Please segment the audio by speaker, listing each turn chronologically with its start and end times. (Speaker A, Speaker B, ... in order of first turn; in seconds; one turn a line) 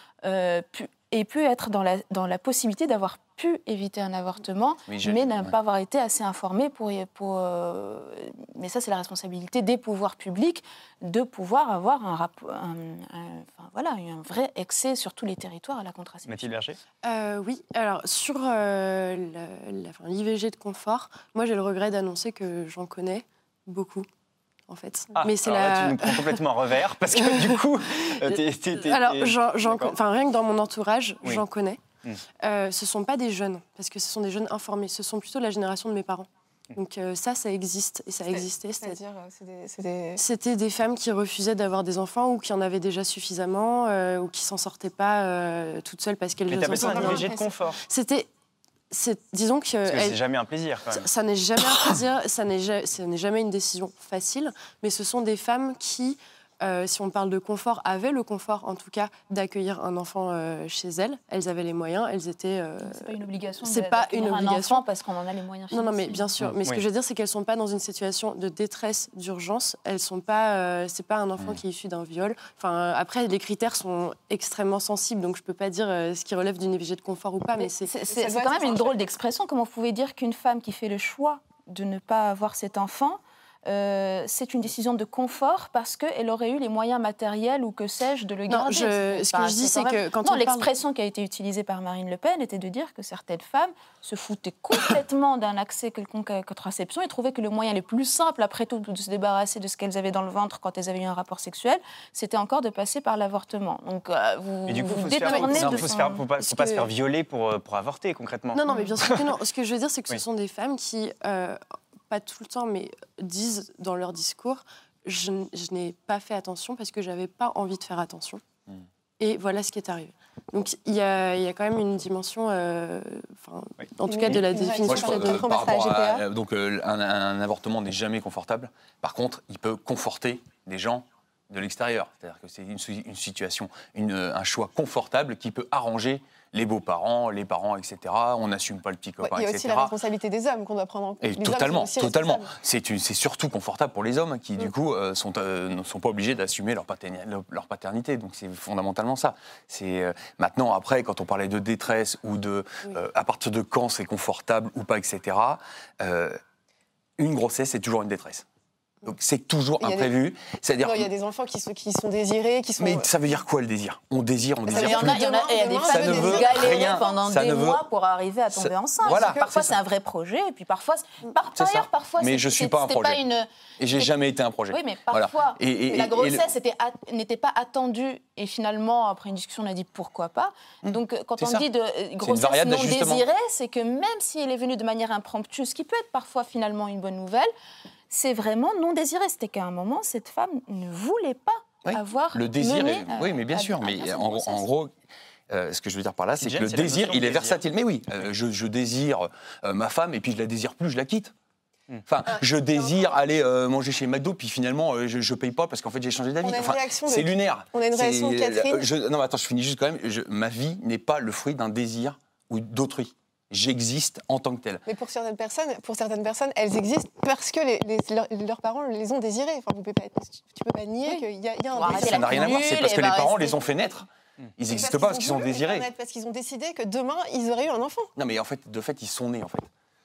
Speaker A: 0.2-16.5
Speaker B: 4.9-5.5
Speaker C: 16.2-16.8
Speaker D: 17.0-24.1
Speaker D: 24.7-26.4
Speaker C: 25.1-29.9
Speaker D: 27.1-31.8
Speaker D: 32.4-39.0
Speaker E: 38.2-40.2
Speaker D: 40.2-48.3
Speaker C: 46.5-47.8
Speaker E: 46.7-47.3
Speaker D: 48.9-50.2
Speaker C: 49.8-51.0
Speaker D: 50.9-64.8
Speaker A: 62.8-66.3
Speaker D: 65.7-77.9
Speaker E: 77.6-78.9
Speaker A: 77.8-106.9
Speaker D: 88.5-90.7
Speaker C: 104.7-109.3
Speaker B: 105.2-105.9
Speaker D: 108.5-118.4
Speaker D: 119.2-125.6
Speaker E: 124.0-126.2
Speaker B: 124.8-139.9
Speaker E: 139.2-142.5
Speaker B: 141.2-156.4
Speaker B: 157.2-158.4
Speaker B: 159.0-161.1
Speaker E: 159.8-160.1
Speaker E: 160.8-163.1
Speaker B: 162.8-165.2
Speaker E: 164.6-167.1
Speaker A: 164.7-174.1
Speaker B: 165.8-167.8
Speaker B: 168.5-169.8
Speaker E: 169.0-169.5
Speaker B: 171.5-173.2
Speaker B: 173.8-176.5
Speaker A: 174.7-187.5
Speaker B: 180.8-181.7
Speaker B: 182.2-183.2
Speaker A: 188.1-194.7
Speaker B: 191.8-194.9
Speaker B: 195.5-201.3
Speaker C: 196.4-197.6
Speaker B: 202.1-214.8
Speaker E: 202.3-203.1
Speaker E: 206.4-208.8
Speaker E: 214.8-222.6
Speaker A: 221.8-223.6
Speaker B: 221.8-225.9
Speaker E: 224.7-228.1
Speaker B: 228.2-229.7